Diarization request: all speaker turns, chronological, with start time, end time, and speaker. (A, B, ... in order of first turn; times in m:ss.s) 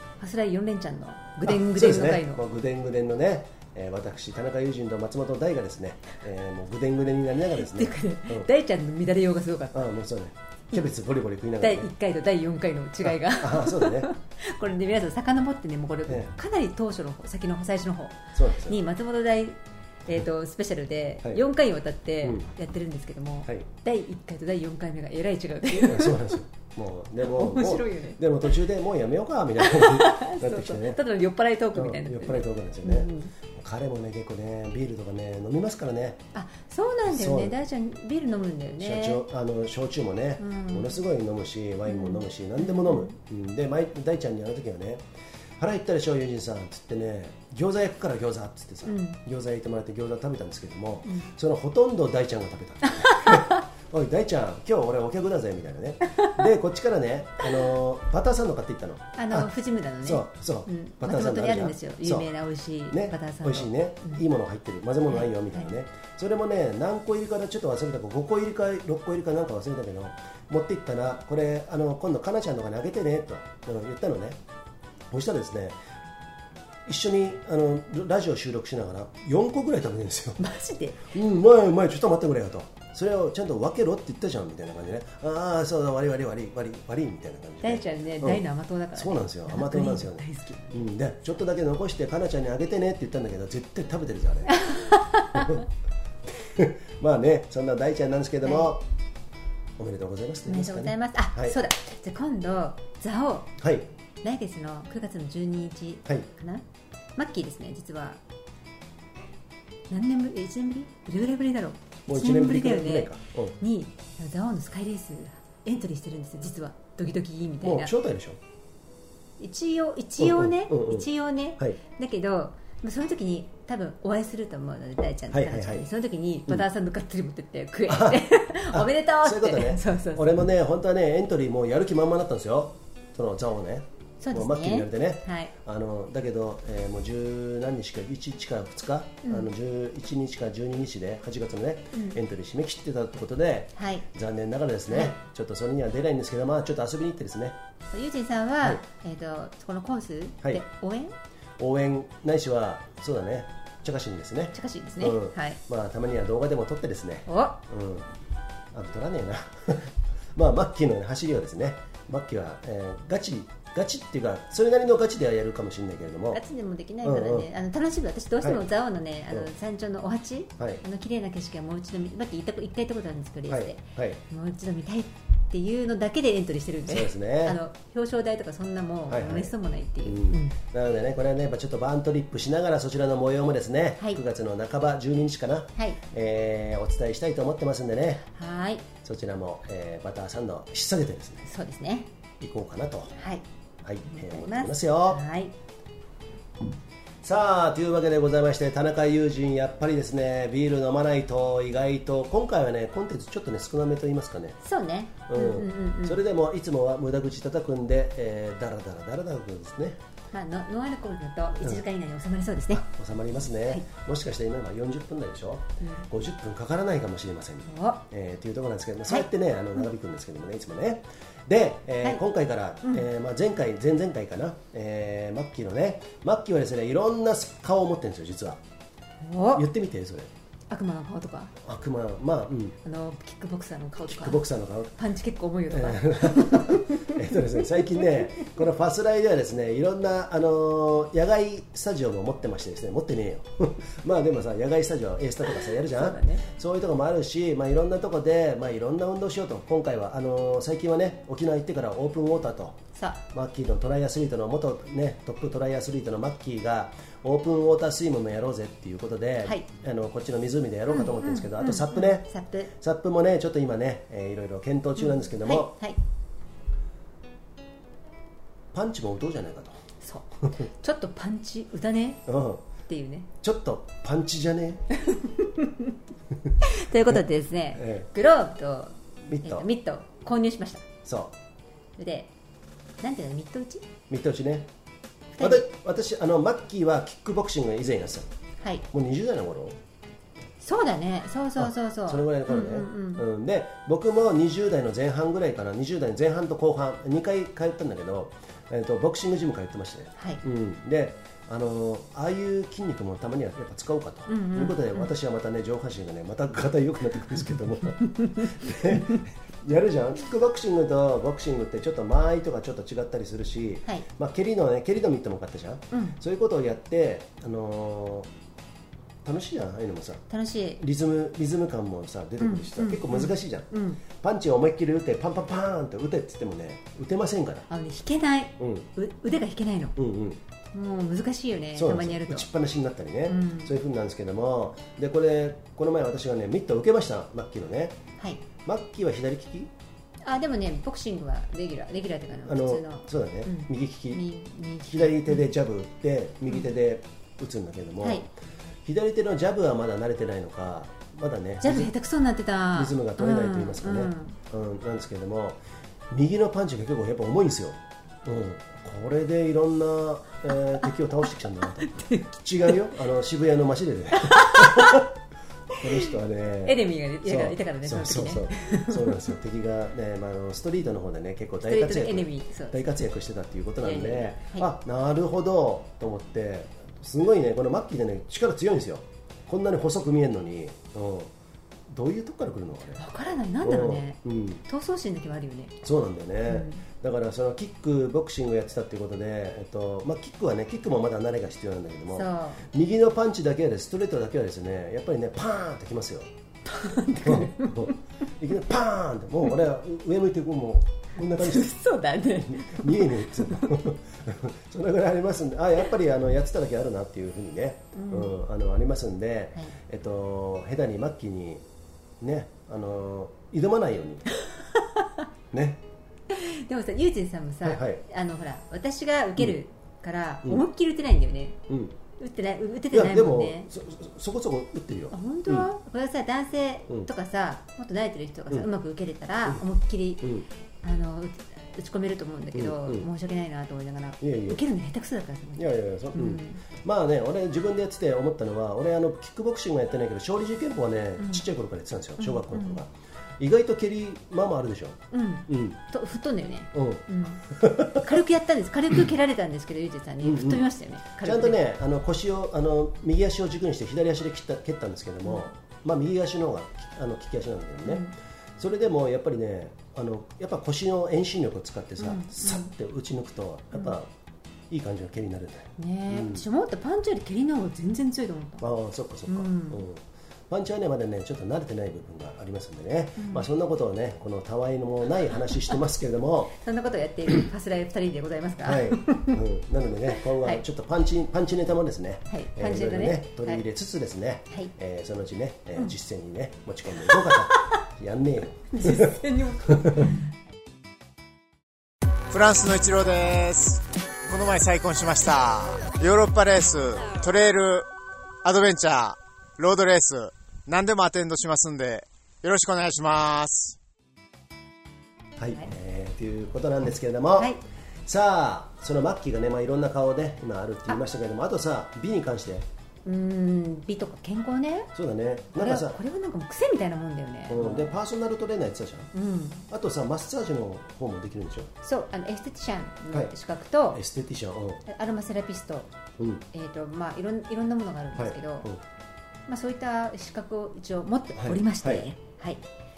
0:00.2-0:02.4 A
0:01.4-0:08.5 B
0:07.6-0:09.9 A
0:09.7-0:11.9 B
0:11.6-0:26.4 A
0:13.0-0:14.1 B
0:16.1-0:16.3 B
0:18.3-0:18.8 B
0:22.2-0:22.5 B
0:25.8-0:31.0 B
0:27.2-0:28.2 A
0:29.6-0:33.3 A
0:31.8-0:36.3 B
0:36.3-0:39.2 A
0:37.1-0:37.6 B
0:38.8-0:45.0 B
0:40.4-0:41.0 A
0:41.9-0:43.1 A
0:45.6-1:02.3 B
0:48.8-0:49.2 A
0:53.0-0:53.6 A
0:56.1-0:56.5 A
0:59.2-1:04.2 A
1:02.9-1:14.4 B
1:05.1-1:05.7 A
1:15.1-1:15.8 B
1:16.9-1:20.4 B
1:20.4-1:21.1 A
1:21.1-1:28.4 B
1:27.6-1:30.9 A
1:29.0-1:34.7 B
1:34.5-1:35.6 A
1:35.3-1:35.6 B
1:36.3-1:38.8 B
1:38.4-1:38.7 A
1:39.8-1:41.6 B
1:40.5-1:43.5 A
1:43.6-1:43.9 B
1:44.2-1:46.6 A
1:47.2-1:48.2 A
1:49.9-1:57.9 A
1:52.1-1:53.6 B
1:57.6-1:58.4 B
1:59.4-2:10.4 A
2:00.2-2:01.8 B
2:05.3-2:05.9 B
2:07.9-2:27.6 B
2:14.2-2:15.5 A
2:21.9-2:22.2 A
2:23.8-2:24.1 A
2:24.9-2:25.2 A
2:27.9-2:31.1 A
2:31.6-2:38.2 B
2:34.5-2:35.6 A
2:37.3-2:37.6 A
2:38.7-2:46.4 B
2:46.3-3:00.6 A
2:47.0-2:47.5 B
2:53.5-2:54.2 B
2:56.9-2:57.6 B
2:59.1-3:08.2 B
3:08.3-3:08.8 A
3:09.0-3:11.5 B
3:11.4-3:12.1 A
3:12.4-3:13.1 B
3:13.1-3:13.4 A
3:13.8-3:15.2 B
3:14.1-3:15.5 A
3:17.2-3:24.6 B
3:24.6-3:26.2 A
3:25.3-3:30.0 B
3:30.3-3:32.8 A
3:31.6-3:31.8 B
3:32.7-3:48.6 B
3:35.8-3:36.1 A
3:37.7-3:38.0 A
3:49.2-3:49.7 A
3:49.6-3:50.3 B
3:50.7-3:51.6 A
3:51.6-3:52.8 B
3:52.8-3:54.4 A
3:54.1-3:55.0 B
3:55.0-3:57.2 A
3:55.7-4:12.8 B
4:05.8-4:06.5 A
4:13.0-4:13.2 A
4:13.3-4:25.8 B
4:20.9-4:22.7 A
4:25.0-4:26.0 A
4:28.7-4:29.8 B
4:30.0-4:32.3 A
4:32.3-4:32.6 B
4:32.9-4:33.3 A
4:33.4-4:34.8 B
4:35.0-4:35.7 A
4:36.6-4:40.9 A
4:37.8-4:38.1 B
4:39.3-4:39.7 B
4:41.0-4:41.4 B
4:42.0-4:42.3 A
4:43.0-4:43.8 A
4:44.1-4:44.7 B
4:45.4-4:45.7 A
4:45.4-4:48.3 B
4:48.6-4:48.8 A
4:48.9-4:49.8 B
4:50.6-4:53.3 A
4:51.6-5:18.3 B
5:00.2-5:00.4 A
5:04.3-5:05.1 A
5:15.9-5:16.2 A
5:19.2-5:20.2 B
5:20.3-5:20.8 A
5:20.8-5:27.7 B
5:22.4-5:24.0 A
5:27.7-5:30.0 A
5:28.6-5:28.9 B
5:30.0-5:30.4 B
5:30.7-5:32.5 A
5:31.8-5:38.0 B
5:33.3-5:33.7 A
5:38.6-5:39.7 B
5:40.2-5:45.5 A
5:42.5-5:44.3 B
5:44.9-5:48.3 B
5:48.0-5:48.3 A
5:48.8-5:51.9 B
5:51.6-5:54.4 A
5:52.7-6:05.1 B
6:01.8-6:02.7 A
6:04.2-6:05.1 A
6:05.8-6:21.3 B
6:06.6-6:09.3 A
6:11.7-6:12.8 A
6:13.8-6:14.7 A
6:21.9-6:23.0 B
6:23.0-6:25.8 A
6:23.6-6:24.6 B
6:25.8-6:36.3 B
6:26.5-6:26.8 A
6:32.1-6:32.7 A
6:36.7-6:38.0 A
6:37.2-6:41.7 B
6:41.2-6:43.8 A
6:42.5-6:51.6 B
6:47.9-6:48.4 A
6:52.2-6:54.2 B
6:54.8-6:55.1 A
6:55.5-6:55.8 B
6:56.3-7:01.6 A
6:57.6-6:58.0 B
7:01.7-7:02.0 B
7:02.2-7:03.7 A
7:02.9-7:05.7 B
7:05.1-7:10.3 A
7:10.2-7:10.5 B
7:10.8-7:16.6 A
7:12.6-7:13.1 B
7:14.2-7:14.6 B
7:15.6-7:25.8 B
7:21.2-7:21.4 A
7:22.2-7:22.8 A
7:25.1-7:31.6 A
7:26.7-7:28.2 B
7:30.2-7:30.6 B
7:31.2-7:44.1 B
7:35.2-7:35.5 A
7:37.9-7:38.2 A
7:42.0-7:42.7 A
7:44.7-7:46.4 B
7:45.8-7:48.7 A
7:48.6-7:56.5 B
7:49.3-7:49.9 A
7:53.2-7:53.5 A
7:56.6-7:59.4 A
7:58.6-8:10.1 B
8:00.4-8:00.6 A
8:02.3-8:03.6 A
8:07.1-8:07.8 A
8:08.7-8:10.2 A
8:12.3-8:17.9 C
8:18.4-8:23.8 C
8:25.4-8:27.5 B
8:27.4-8:27.6 A
8:28.1-8:32.7 B
8:33.0-8:34.9 A
8:35.0-8:36.0 B
8:35.5-8:38.0 A
8:37.5-8:39.1 B
8:39.1-8:39.7 A
8:39.7-8:41.7 B
8:41.8-8:44.0 A
8:43.9-8:44.8 B
8:44.9-8:45.9 A
8:46.2-8:46.4 B
8:46.5-8:48.7 A
8:48.2-8:48.8 B
8:49.5-8:52.6 A
8:51.4-8:52.1 B